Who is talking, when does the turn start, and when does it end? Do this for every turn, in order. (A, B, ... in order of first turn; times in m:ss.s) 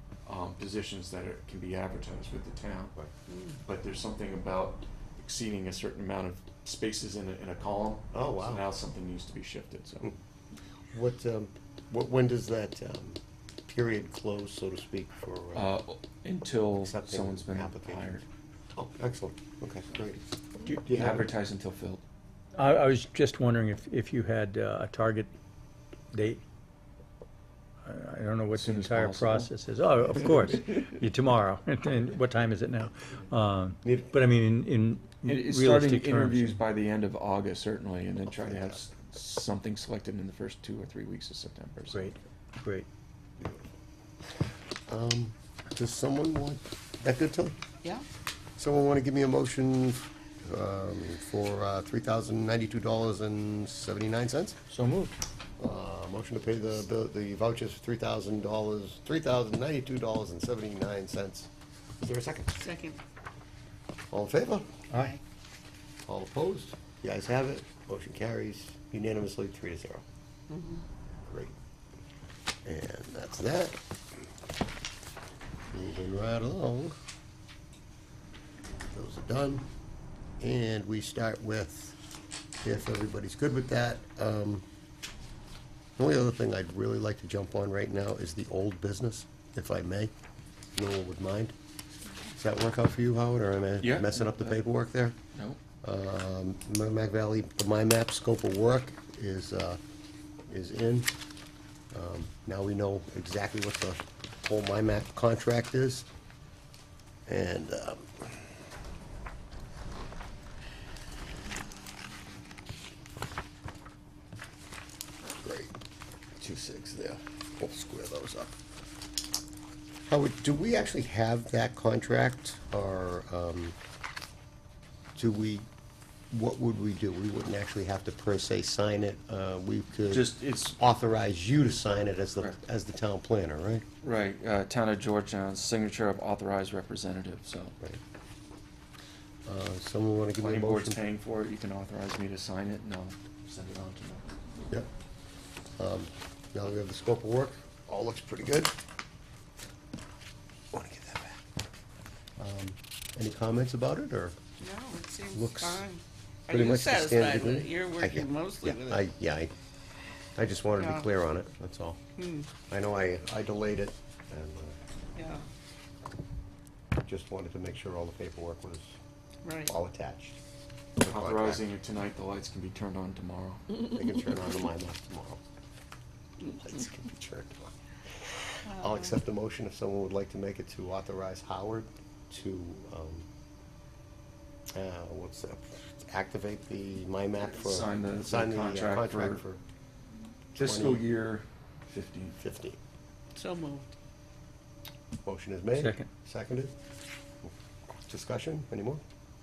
0:00.2-0:02.9 A
0:03.3-0:03.5 B
0:03.6-0:10.1 A
0:08.1-0:08.6 C
0:10.9-0:15.7 C
0:15.5-0:18.2 A
0:16.7-0:20.2 C
0:20.6-0:22.0 A
0:20.8-0:21.3 C
0:22.5-0:25.3 D
0:26.1-0:26.4 D
0:27.8-0:36.6 D
0:28.5-0:29.5 A
0:33.8-0:34.1 C
0:35.2-0:42.1 A
0:38.3-0:38.8 C
0:41.9-0:42.9 D
0:44.9-0:47.6 C
0:48.6-0:54.6 C
0:54.7-0:55.2 D
0:55.6-1:01.5 C
1:02.0-1:02.7 C
1:02.6-1:03.0 B
1:04.1-1:04.7 C
1:04.9-1:05.2 D
1:06.0-1:10.0 C
1:10.5-1:10.8 B
1:11.2-1:11.5 C
1:12.6-1:13.8 C
1:15.7-1:16.9 C
1:18.9-1:19.7 C
1:20.4-1:22.0 C
1:22.6-1:24.6 C
1:26.0-1:30.1 C
1:30.7-1:31.5 C
1:32.4-1:35.2 C
1:33.8-1:34.6 A
1:35.3-1:35.6 A
1:35.8-1:39.8 C
1:40.5-1:41.1 C
1:41.9-1:46.1 C
1:47.3-1:48.3 C
1:55.4-1:55.7 C
1:56.4-1:58.5 C
2:00.1-2:03.8 C
2:05.2-2:05.7 C
2:06.3-2:13.8 C
2:10.1-2:10.8 A
2:14.0-2:17.8 A
2:19.4-2:21.0 C
2:20.4-2:24.3 A
2:25.8-2:28.7 C
2:30.7-2:31.4 C
2:32.4-2:34.4 C
2:34.6-2:39.0 B
2:35.3-2:35.9 C
2:36.5-2:39.5 C
2:40.4-2:42.0 C
2:40.8-2:41.1 B
2:42.2-2:42.5 B
2:42.7-2:44.8 C
2:45.2-2:45.4 B
2:47.0-2:49.0 C
2:49.4-2:49.7 B
2:49.6-2:50.4 C
2:51.0-2:51.6 C
2:51.0-2:53.6 A
2:53.8-2:55.4 C
2:56.4-2:57.7 C
2:58.2-3:03.2 C
2:58.6-2:59.1 B
3:04.7-3:09.6 C
3:07.5-3:09.4 A
3:10.5-3:11.0 C
3:10.5-3:12.4 A
3:12.4-3:12.8 C
3:13.3-3:13.9 B
3:15.2-3:16.7 C
3:15.8-3:16.1 D
3:18.1-3:19.0 C